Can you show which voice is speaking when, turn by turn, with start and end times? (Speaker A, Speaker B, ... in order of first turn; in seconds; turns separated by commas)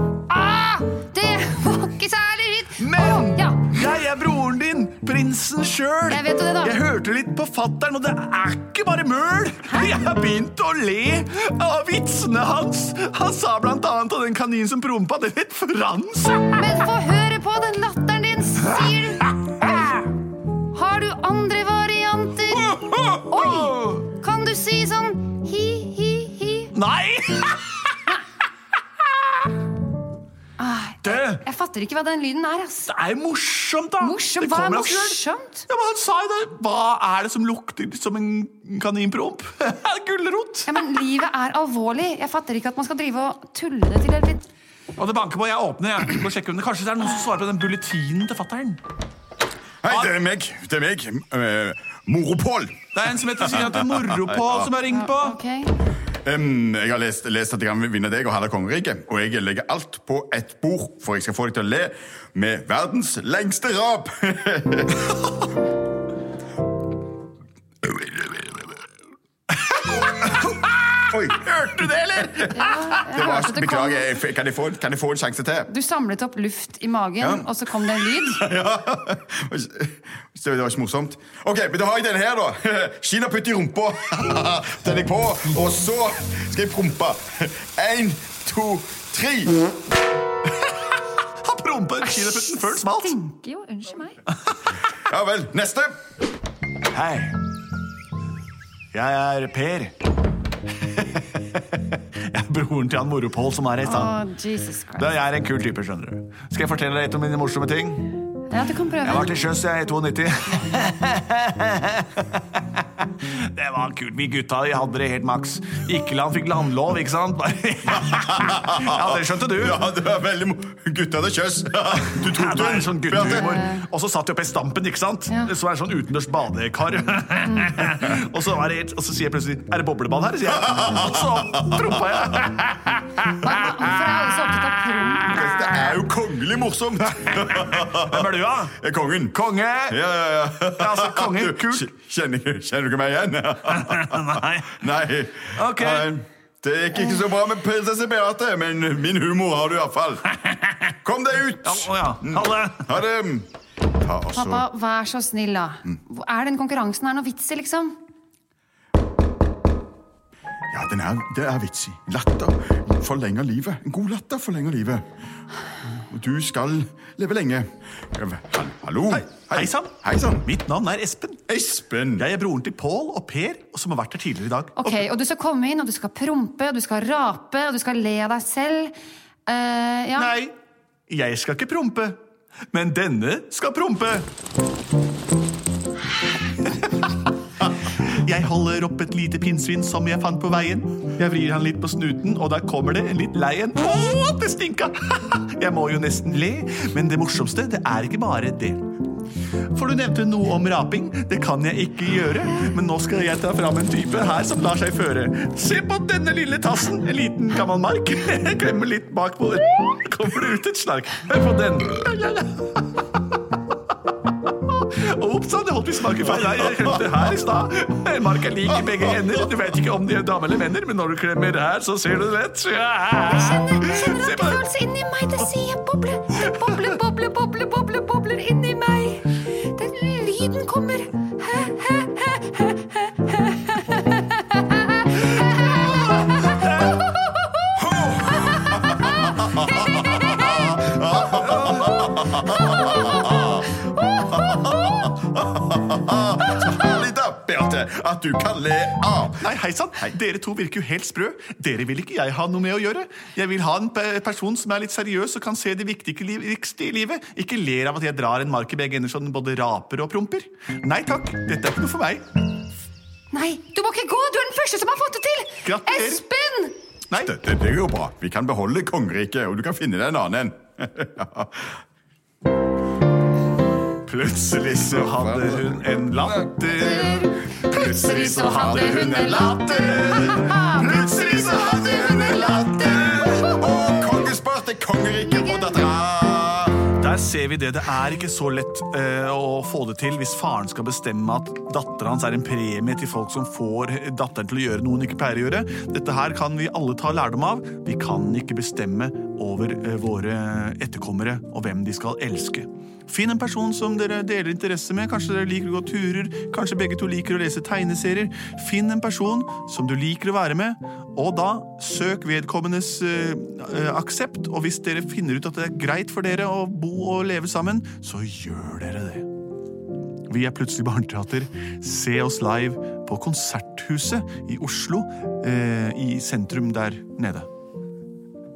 Speaker A: 0.3-3.7, Speaker B: 2.8-16.6, Speaker A: 6.1-6.8, Speaker A: 9.7-10.0, Speaker A: 16.5-20.0, Speaker A: 20.7-26.7, Speaker B: 22.6-24.1, Speaker B: 26.7-28.0, Speaker A: 30.6-32.9, Speaker B: 31.0-31.4, Speaker B: 32.9-40.7, Speaker A: 34.0-35.6, Speaker A: 40.7-44.4, Speaker B: 45.0-48.8, Speaker C: 49.8-52.7, Speaker B: 49.9-50.1, Speaker B: 52.9-55.4, Speaker C: 53.4-54.7, Speaker A: 54.9-55.8, Speaker C: 56.2-65.1, Speaker C: 67.8-68.7, Speaker B: 69.6-73.2, Speaker C: 71.1-72.5, Speaker A: 72.5-74.1, Speaker C: 73.1-75.7, Speaker A: 75.7-78.4, Speaker C: 77.2-89.6, Speaker B: 91.4-93.2, Speaker A: 92.0-94.2, Speaker C: 94.9-96.0, Speaker B: 96.9-97.4, Speaker B: 98.9-99.9, Speaker B: 101.3-104.2, Speaker A: 103.8-105.1, Speaker B: 105.0-108.1, Speaker A: 108.5-109.4, Speaker B: 109.0-112.5, Speaker B: 113.2-119.8, Speaker C: 118.1-123.6, Speaker B: 122.1-133.9, Speaker A: 123.2-123.8, Speaker A: 127.5-127.9, Speaker C: 130.6-132.2, Speaker A: 133.3-135.4, Speaker C: 135.2-139.4, Speaker B: 137.2-138.8, Speaker B: 139.3-140.0, Speaker C: 139.9-150.4, Speaker B: 140.7-141.9, Speaker B: 143.7-144.8, Speaker B: 145.5-146.1, Speaker C: 150.9-153.5, Speaker B: 151.6-153.0, Speaker C: 154.0-154.7, Speaker A: 154.3-158.0, Speaker C: 160.7-165.1, Speaker C: 165.9-170.5, Speaker B: 169.1-171.4, Speaker C: 171.5-172.2, Speaker B: 172.2-175.1, Speaker A: 174.8-178.9, Speaker A: 179.5-180.3, Speaker B: 180.2-180.5, Speaker B: 181.1-182.2, Speaker B: 182.7-184.3, Speaker B: 186.6-198.8, Speaker B: 199.7-212.8, Speaker B: 214.8-224.6, Speaker A: 223.2-236.9, Speaker C: 237.8-249.4, Speaker A: 239.0-240.8, Speaker B: 241.6-241.8, Speaker B: 249.4-262.2, Speaker A: 263.3-266.8, Speaker B: 265.6-266.2, Speaker C: 267.2-271.8, Speaker B: 274.0-283.5, Speaker C: 274.8-275.8, Speaker A: 276.7-283.7, Speaker C: 278.4-279.2, Speaker C: 281.0-286.8, Speaker A: 285.3-285.7, Speaker B: 286.9-319.3, Speaker B: 320.2-327.5